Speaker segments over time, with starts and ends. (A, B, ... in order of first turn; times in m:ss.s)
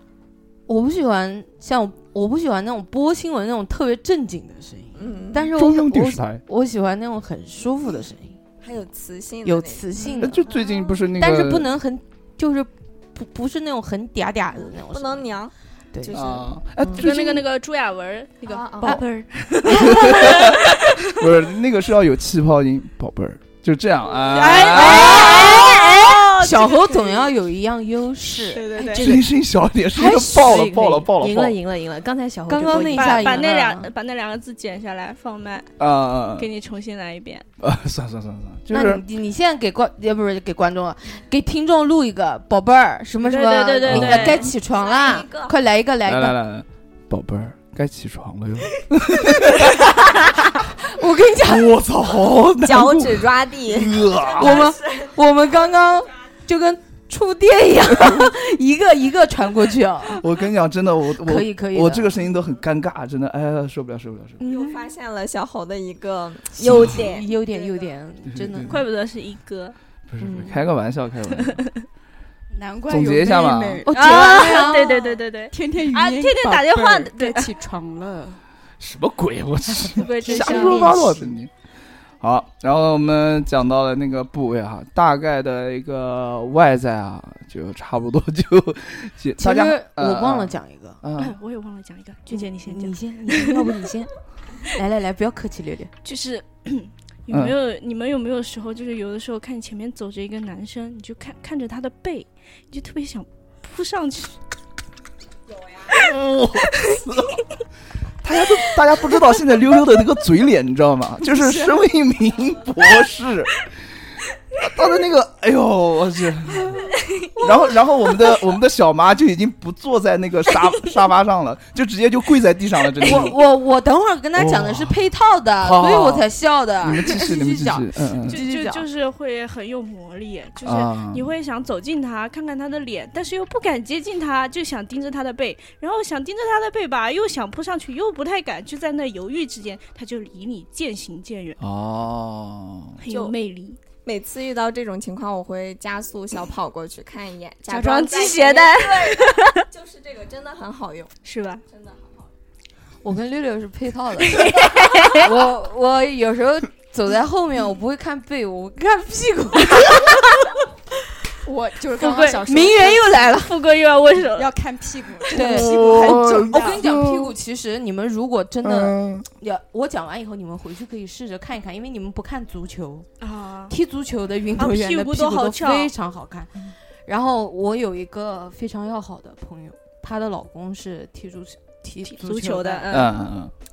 0:00.7-0:08.4 A
0:05.0-0:05.5 B
0:05.5-0:06.4 C
0:08.6-0:09.8 B
0:09.4-0:10.5 A
0:10.2-0:11.7 C
0:11.2-0:15.3 A
0:14.9-0:16.5 B
0:15.9-0:16.2 A
0:16.1-0:17.4 C
0:17.0-0:20.9 D
0:18.6-0:19.0 E
0:19.6-0:20.2 A
0:19.7-0:25.5 C
0:24.2-0:27.3 D
0:24.6-0:29.2 A
0:28.4-0:29.1 D
0:28.9-0:31.6 C
0:29.9-0:33.4 E
0:32.5-0:33.9 A
0:32.8-0:35.7 D
0:35.8-0:36.5 C
0:36.3-0:37.4 D
0:37.6-0:39.0 C
0:38.7-0:46.4 A
0:43.2-0:44.5 D
0:43.8-0:44.4 C
0:44.4-0:45.6 B
0:46.1-0:49.9 C
0:50.8-0:51.7 A
0:51.4-0:54.7 C
0:52.6-0:55.1 B
0:54.4-1:00.2 A
1:00.1-1:04.4 C
1:01.2-1:02.1 A
1:04.4-1:04.8 A
1:04.4-1:07.9 B
1:06.6-1:08.8 A
1:06.6-1:07.0 C
1:08.3-1:08.8 C
1:08.7-1:09.8 D
1:10.1-1:11.6 C
1:11.4-1:11.8 D
1:12.5-1:14.7 F
1:12.9-1:13.8 C
1:13.8-1:15.2 A
1:13.9-1:17.5 D
1:15.5-1:18.4 F
1:18.8-1:21.5 C
1:20.0-1:21.0 D
1:20.4-1:20.8 A
1:22.2-1:31.4 C
1:29.4-1:31.0 A
1:31.2-1:33.7 D
1:32.3-1:35.9 A
1:36.0-1:44.4 D
1:45.5-1:46.0 B
1:45.9-1:47.4 C
1:48.2-1:53.7 C
1:51.4-1:51.8 F
1:54.5-2:03.4 C
1:57.0-1:57.5 D
2:03.0-2:08.8 A
2:04.4-2:05.0 C
2:05.6-2:06.2 C
2:06.8-2:08.4 C
2:08.3-2:21.6 D
2:10.6-2:11.3 C
2:21.6-2:23.0 C
2:23.0-2:23.8 D
2:23.1-2:23.4 B
2:24.0-2:31.1 B
2:27.7-2:29.6 D
2:31.2-2:31.6 D
2:31.7-2:32.3 B
2:33.0-2:40.4 A
2:34.3-2:35.3 D
2:41.4-2:43.3 F
2:42.0-2:42.4 D
2:42.1-2:43.6 A
2:43.2-2:44.5 D
2:44.4-2:46.8 F
2:45.3-2:53.1 A
2:45.4-2:47.3 C
2:48.6-2:49.2 C
2:53.2-2:53.8 D
2:53.7-3:02.9 A
2:54.6-2:55.9 D
3:02.0-3:03.2 D
3:02.9-3:03.5 C